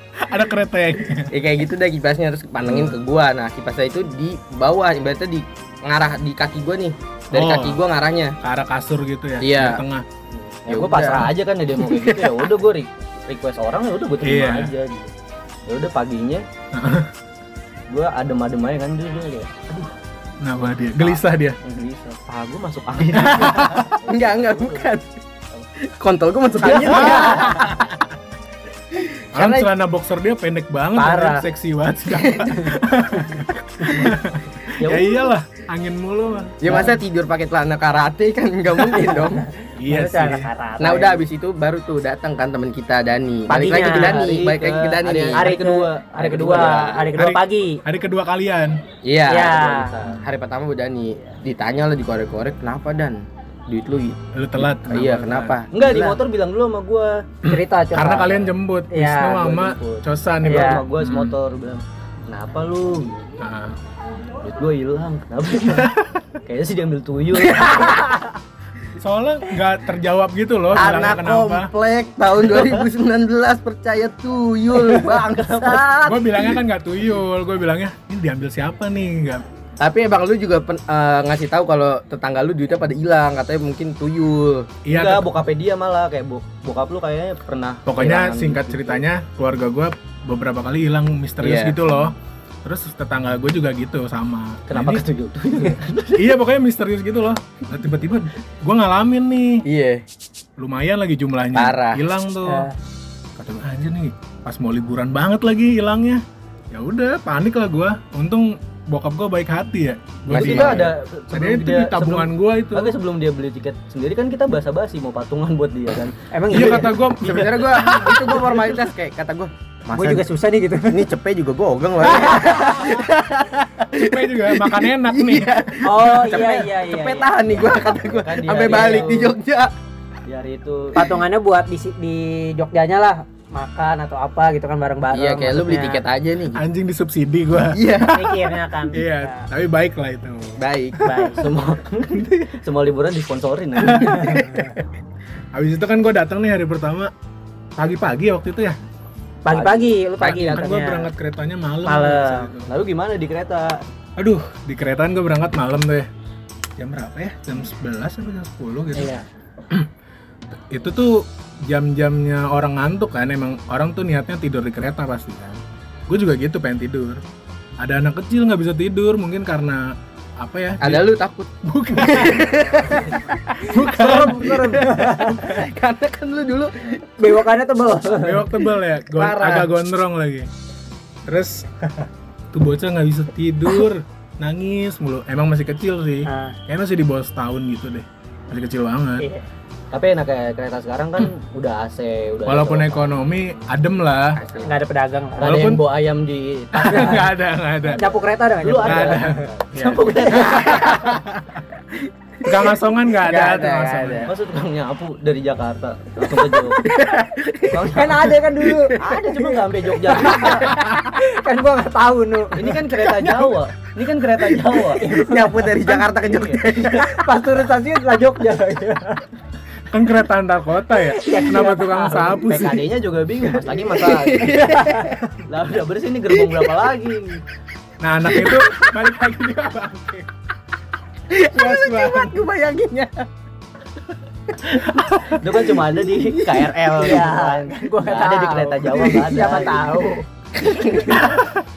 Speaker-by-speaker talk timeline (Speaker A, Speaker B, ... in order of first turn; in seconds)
Speaker A: 0.2-1.3, 2.6-2.9, 7.3-7.8, 8.4-10.0, 14.2-14.7, 16.7-17.1, 20.4-21.6, 23.2-23.9, 26.7-27.9, 29.3-36.7, 39.8-40.5, 47.1-48.8, 54.3-55.5, 57.4-61.3, 63.4-63.8, 65.8-66.0, 69.0-71.7, 76.1-79.4, 84.8-85.3, 87.8-95.0, 96.1-99.6, 100.6-102.7, 103.4-112.9, 116.5-118.6, 123.9-125.6, 136.5-141.3, 143.8-144.6, 145.5-147.1, 147.8-148.8, 150.2-152.7, 154.2-156.1, 156.8-159.1, 160.7-167.2, 167.8-171.1, 171.6-173.0, 173.7-174.8, 178.1-180.5, 181.3-181.9, 182.5-189.2, 192.5-194.4, 195.4-195.8, 196.7-198.0, 198.8-201.0, 202.4-204.3, 213.2-213.5, 219.9-222.9, 228.0-230.3, 231.6-232.3, 235.0-235.4, 241.1-241.6
Speaker B: 1.3-8.3, 9.4-9.8, 10.7-12.4, 24.0-25.2, 25.8-27.7, 28.9-29.7, 32.1-32.7, 36.6-39.5, 40.8-45.5, 46.5-47.1, 49.0-49.6, 50.1-56.2, 67.3-68.2, 70.7-76.4, 79.8-84.7, 91.4-91.8, 99.6-100.0, 101.5-102.0, 110.3-110.9, 117.2-120.3, 120.9-129.7, 135.1-136.6, 137.7-138.3, 140.6-141.2, 150.2-150.6, 170.8-177.3, 179.1-179.7, 194.3-194.8, 200.7-201.3, 202.4-204.3, 206.7-209.2, 215.0-217.2, 223.8-225.2, 231.3-233.3, 236.2-236.7, 240.6-241.2
Speaker C: 10.3-15.1, 15.7-16.4, 17.9-19.9, 21.0-24.9, 26.6-27.6, 34.8-35.3, 43.5-47.0, 49.4-50.2, 55.7-57.2, 59.4-63.3, 64.4-65.9, 66.5-67.9, 72.3-72.9, 74.8-76.0, 84.9-89.0, 94.7-96.3, 110.3-117.9, 127.9-129.3, 130.3-131.0, 141.3-144.4, 149.5-149.9, 152.7-153.8, 189.9-193.2, 195.4-201.1, 204.2-206.9, 207.7-208.3, 209.0-210.7, 212.6-215.1, 216.1-216.6, 222.4-224.8, 225.4-227.4, 235.2-239.9
Speaker D: 26.7-27.4, 30.9-31.4, 39.6-41.2, 43.5-44.3, 45.4-47.8, 49.3-49.9, 57.4-59.5, 60.4-60.8, 102.4-102.7, 116.3-116.9, 119.9-121.0, 125.8-127.3, 130.9-136.0, 138.1-139.4, 141.0-141.4, 143.9-144.7, 149.4-151.1, 151.8-152.5, 158.9-159.2, 173.8-175.6, 177.2-178.6, 186.2-186.6, 189.2-189.4, 194.6-195.5, 196.9-197.1, 198.0-199.4, 207.9-209.0, 210.1-212.7, 214.9-216.0, 216.9-219.2, 220.9-222.6, 224.6-225.2, 236.9-240.2